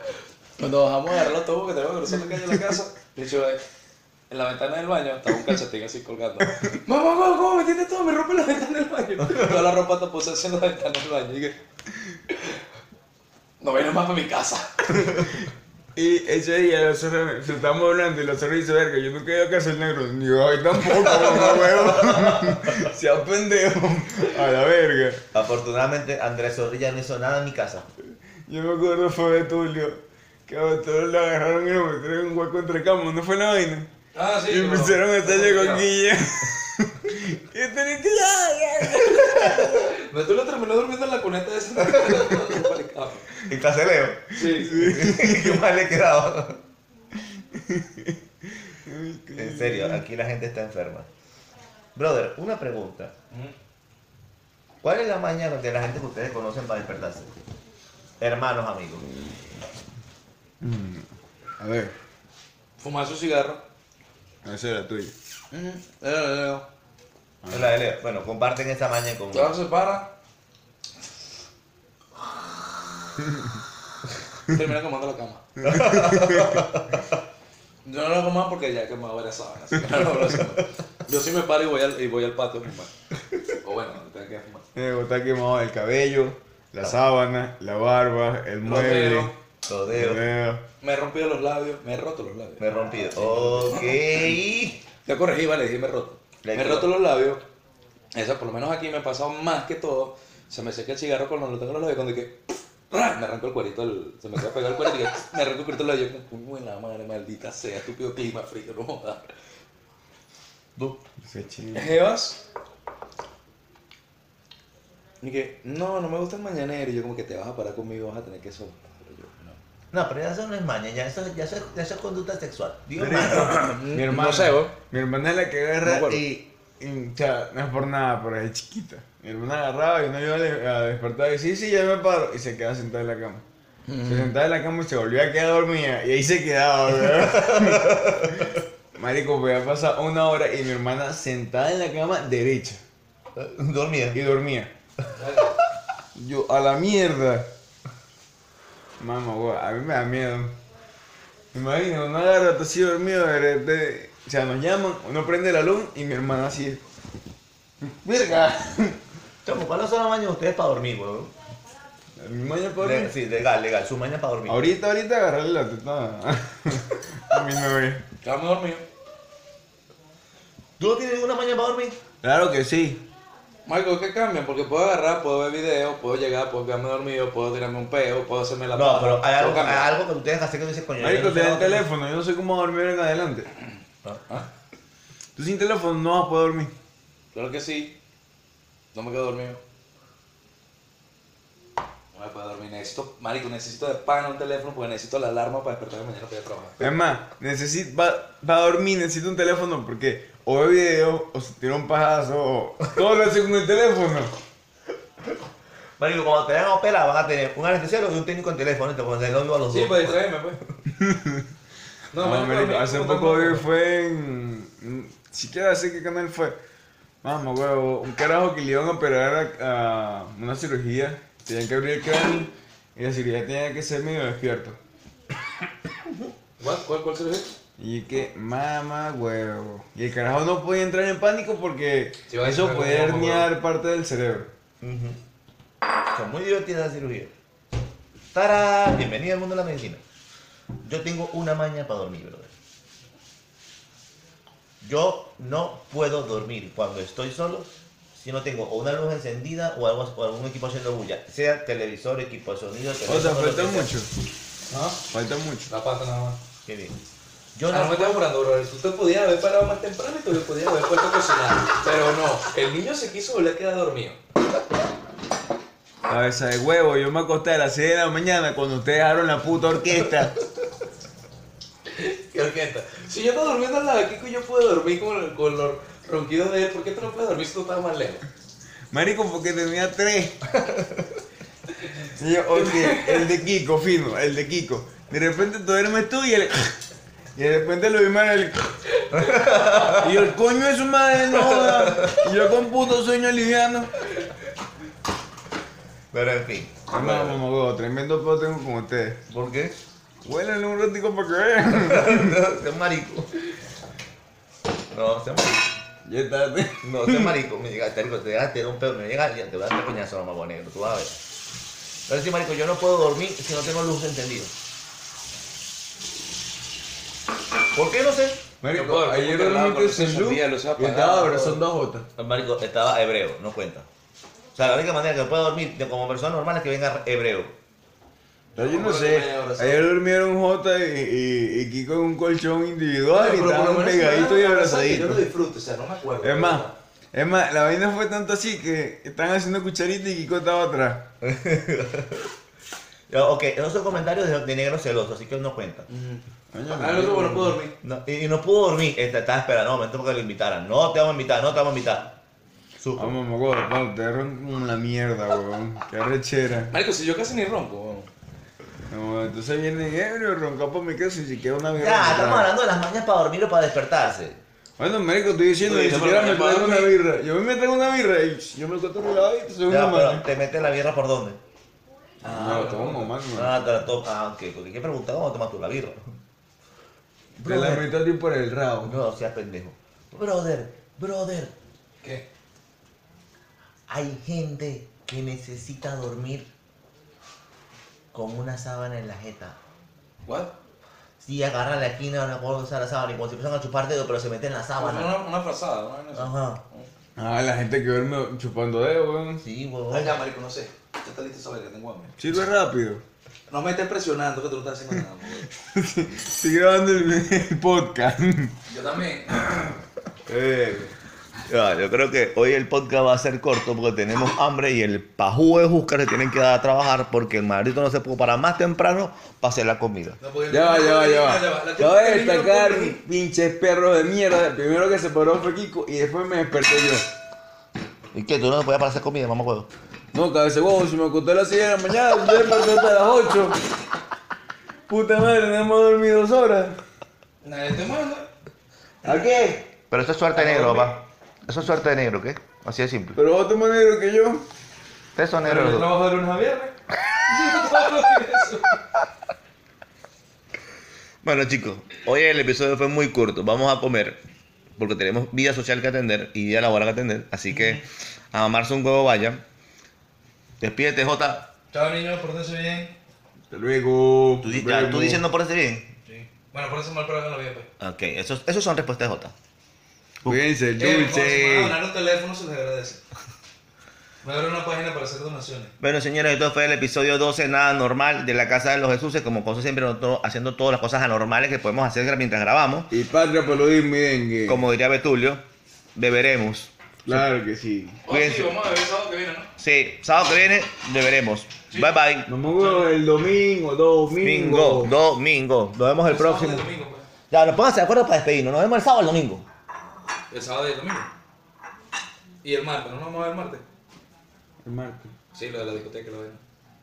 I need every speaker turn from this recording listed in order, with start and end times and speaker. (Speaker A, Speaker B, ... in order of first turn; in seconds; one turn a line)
Speaker A: 0.6-3.6
Speaker A: 4.3-11.6
Speaker B: 6.5-6.7
Speaker C: 9.3-9.6
Speaker A: 12.3-12.6
Speaker A: 13.6-15.1
Speaker B: 15.9-25.2
Speaker C: 20.9-22.9
Speaker C: 25.3-27.9
Speaker B: 28.5-33.9
Speaker A: 34.1-35.9
Speaker B: 34.5-39.9
Speaker A: 39.4-43.3
Speaker C: 41.8-42.5
Speaker C: 43.5-46.6
Speaker A: 44.3-44.7
Speaker B: 44.5-45.6
Speaker B: 47.1-50.0
Speaker C: 49.4-51.1
Speaker C: 51.9-53.1
Speaker C: 54.8-57.3
Speaker C: 58.2-59.0
Speaker B: 60.6-61.1
Speaker B: 61.6-61.9
Speaker A: 62.8-63.6
Speaker B: 64.4-65.1
Speaker A: 65.5-66.7
Speaker B: 67.4-67.8
Speaker C: 67.5-69.6
Speaker A: 69.3-70.2
Speaker A: 74.4-75.6
Speaker B: 75.6-76.6
Speaker C: 75.6-77.1
Speaker A: 77.8-82.9
Speaker A: 83.5-84.7
Speaker B: 84.7-89.3
Speaker A: 88.6-89.3
Speaker C: 89.7-90.2
Speaker B: 89.9-90.6
Speaker A: 90.8-94.0
Speaker C: 92.6-94.8
Speaker A: 95.0-97.4
Speaker C: 96.4-96.9
Speaker A: 98.1-102.4
Speaker A: 102.9-109.2
Speaker B: 111.2-112.0
Speaker A: 111.7-112.4
Speaker A: 115.2-119.6
Speaker C: 119.9-123.7
Speaker B: 123.0-133.4
Speaker A: 123.2-124.7
Speaker A: 125.8-126.2
Speaker A: 133.9-134.3
Speaker B: 134.0-142.8
Speaker C: 137.1-138.4
Speaker C: 143.3-144.2
Speaker B: 144.1-144.7
Speaker A: 145.1-145.6
Speaker B: 146.1-147.5
Speaker B: 149.0-150.5
Speaker B: 151.5-156.8
Speaker B: 157.8-159.0
Speaker C: 159.4-161.3
Speaker B: 162.2-163.1
Speaker C: 162.8-164.6
Speaker B: 164.5-168.0
Speaker A: 168.2-168.8
Speaker C: 170.8-172.0
Speaker B: 172.2-173.0
Speaker A: 173.7-180.0
Speaker C: 178.7-181.8
Speaker B: 181.0-183.5
Speaker B: 185.3-186.7
Speaker A: 187.3-188.0
Speaker A: 188.9-189.6
Speaker A: 192.1-196.8
Speaker B: 196.8-204.3
Speaker C: 206.0-210.2
Speaker A: 209.7-210.6
Speaker B: 210.9-211.5
Speaker A: 212.1-213.7
Speaker B: 212.2-216.6
Speaker B: 217.2-224.8
Speaker A: 226.6-227.5
Speaker B: 227.8-234.5
Speaker A: 232.3-233.5
Speaker C: 234.8-235.2
Speaker C: 236.1-237.3
Speaker C: 238.3-240.0
Speaker C: 240.8-242.5
Speaker C: 244.8-253.9
Speaker B: 253.1-254.1
Speaker A: 254.7-255.0
Speaker B: 255.1-255.7
Speaker A: 255.7-256.4
Speaker C: 256.6-257.0
Speaker C: 257.5-258.2
Speaker A: 257.7-264.2
Speaker B: 266.1-270.3
Speaker A: 271.9-278.2
Speaker B: 278.9-280.4
Speaker B: 282.1-286.8
Speaker A: 282.5-283.3
Speaker B: 287.3-288.8
Speaker A: 288.9-289.9
Speaker C: 289.1-290.2
Speaker B: 290.0-293.9
Speaker C: 291.2-292.2
Speaker C: 296.1-297.4
Speaker B: 296.9-299.2
Speaker C: 299.3-299.8
Speaker B: 300.2-302.4
Speaker C: 301.7-303.3
Speaker C: 304.9-305.7
Speaker B: 306.0-307.3
Speaker C: 306.8-311.2
Speaker C: 312.1-314.5
Speaker C: 317.7-318.4
Speaker B: 318.6-322.1
Speaker A: 318.7-321.6
Speaker C: 322.2-323.9
Speaker C: 324.6-327.5
Speaker A: 328.6-329.9
Speaker B: 328.6-335.2
Speaker A: 333.1-336.8
Speaker B: 336.2-341.1
Speaker C: 341.2-342.3
Speaker C: 343.1-345.9
Speaker A: 345.9-347.7
Speaker B: 346.5-347.6
Speaker C: 347.8-352.2
Speaker C: 352.8-353.1
Speaker B: 353.0-356.7
Speaker A: 356.7-358.1
Speaker B: 358.9-362.5
Speaker C: 361.8-364.4
Speaker B: 364.8-370.2
Speaker A: 365.6-366.9
Speaker C: 369.7-371.4
Speaker A: 372.2-373.1
Speaker B: 372.2-373.6
Speaker C: 373.3-376.1
Speaker C: 377.4-377.9
Speaker B: 377.4-379.0
Speaker C: 378.8-381.5
Speaker A: 382.0-382.3
Speaker C: 383.9-386.5
Speaker C: 388.1-389.6
Speaker A: 390.2-390.5
Speaker C: 391.2-395.1
Speaker A: 394.8-396.9
Speaker C: 396.1-396.6
Speaker B: 397.1-399.4
Speaker C: 399.4-400.1
Speaker A: 399.9-402.2
Speaker B: 402.2-403.0
Speaker A: 403.5-405.5
Speaker B: 405.6-408.5
Speaker A: 408.7-409.8
Speaker B: 410.3-410.9
Speaker C: 411.5-420.2
Speaker A: 420.2-423.0
Speaker B: 420.5-427.1
Speaker C: 428.1-429.7
Speaker B: 430.1-433.6
Speaker B: 434.9-436.8
Speaker A: 437.4-438.3
Speaker B: 439.0-439.7
Speaker C: 439.9-443.2
Speaker A: 440.3-441.0
Speaker B: 443.1-444.4
Speaker C: 445.1-445.9
Speaker A: 445.4-446.7
Speaker A: 447.2-448.8
Speaker C: 451.2-454.2
Speaker C: 454.8-459.4
Speaker A: 457.5-457.8
Speaker C: 460.6-461.5
Speaker A: 461.7-462.9
Speaker B: 463.5-465.2
Speaker C: 464.4-465.9
Speaker A: 466.1-467.7
Speaker C: 467.8-469.3
Speaker B: 470.2-471.8
Speaker A: 470.7-473.0
Speaker A: 474.2-475.7
Speaker C: 475.8-482.9
Speaker B: 482.9-484.6
Speaker C: 484.5-485.4
Speaker C: 485.9-486.7
Speaker B: 487.0-488.0
Speaker A: 488.1-489.5
Speaker C: 488.1-488.5
Speaker C: 489.6-492.3
Speaker B: 492.3-494.9
Speaker A: 492.6-492.9
Speaker C: 494.2-496.7
Speaker A: 496.1-497.1
Speaker C: 497.3-499.4
Speaker A: 500.3-501.1
Speaker A: 502.4-503.6
Speaker B: 504.6-505.1
Speaker A: 505.3-506.4